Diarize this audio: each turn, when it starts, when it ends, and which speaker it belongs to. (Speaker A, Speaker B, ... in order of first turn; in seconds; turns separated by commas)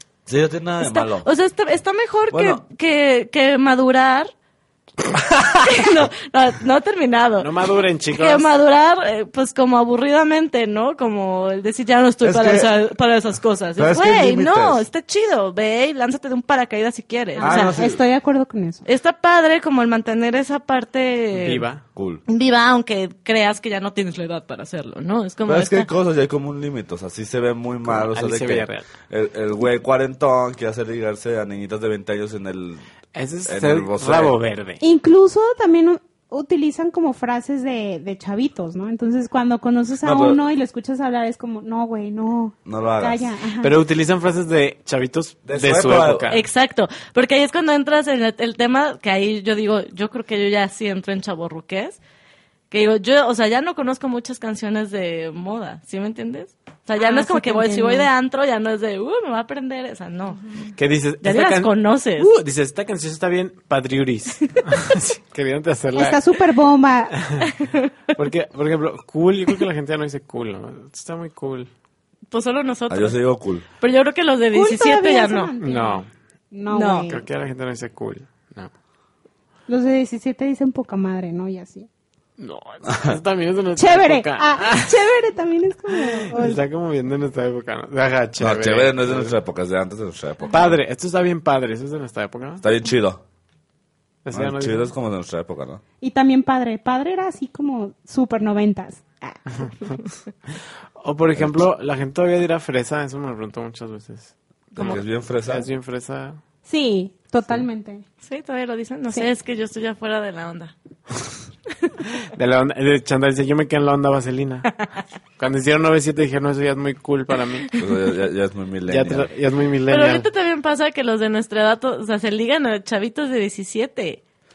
Speaker A: 0.2-1.3, Speaker B: 0.8-4.3, Speaker A: 2.3-2.6, Speaker B: 5.5-7.5, Speaker C: 7.4-8.5, Speaker B: 8.2-17.7, Speaker A: 12.2-12.8, Speaker A: 13.8-14.8, Speaker D: 17.4-18.8, Speaker A: 17.4-18.0, Speaker B: 18.9-21.7, Speaker C: 21.3-21.8, Speaker A: 21.9-22.2, Speaker B: 22.3-25.9, Speaker A: 25.4-32.8, Speaker C: 27.8-28.9, Speaker C: 33.1-34.8, Speaker A: 33.5-34.3, Speaker D: 34.8-43.8, Speaker A: 40.0-40.4, Speaker A: 42.6-43.3, Speaker C: 43.6-46.5, Speaker A: 45.5-46.3, Speaker B: 46.3-52.0, Speaker B: 52.7-60.4, Speaker D: 57.0-58.1, Speaker C: 60.8-66.2, Speaker B: 61.2-62.3, Speaker D: 65.9-67.2, Speaker C: 67.2-67.5, Speaker B: 67.6-67.9, Speaker C: 68.1-71.7, Speaker B: 72.3-73.2, Speaker A: 72.9-73.6, Speaker B: 73.8-75.5, Speaker D: 74.5-77.2, Speaker C: 75.6-76.1, Speaker B: 76.7-77.1, Speaker C: 77.1-78.7, Speaker D: 79.7-81.9, Speaker C: 82.4-85.1, Speaker A: 82.9-83.2, Speaker D: 83.8-86.6, Speaker C: 85.9-89.3, Speaker A: 88.4-90.8, Speaker C: 90.5-92.7, Speaker A: 92.6-93.2, Speaker C: 94.2-94.9, Speaker A: 94.3-95.8, Speaker D: 96.0-99.9, Speaker C: 101.0-106.4, Speaker A: 101.4-101.6, Speaker A: 104.8-105.7, Speaker D: 106.7-108.0, Speaker B: 108.2-110.7, Speaker C: 112.3-114.7, Speaker C: 115.4-117.7, Speaker A: 117.8-119.3, Speaker C: 118.9-120.3, Speaker B: 119.9-124.2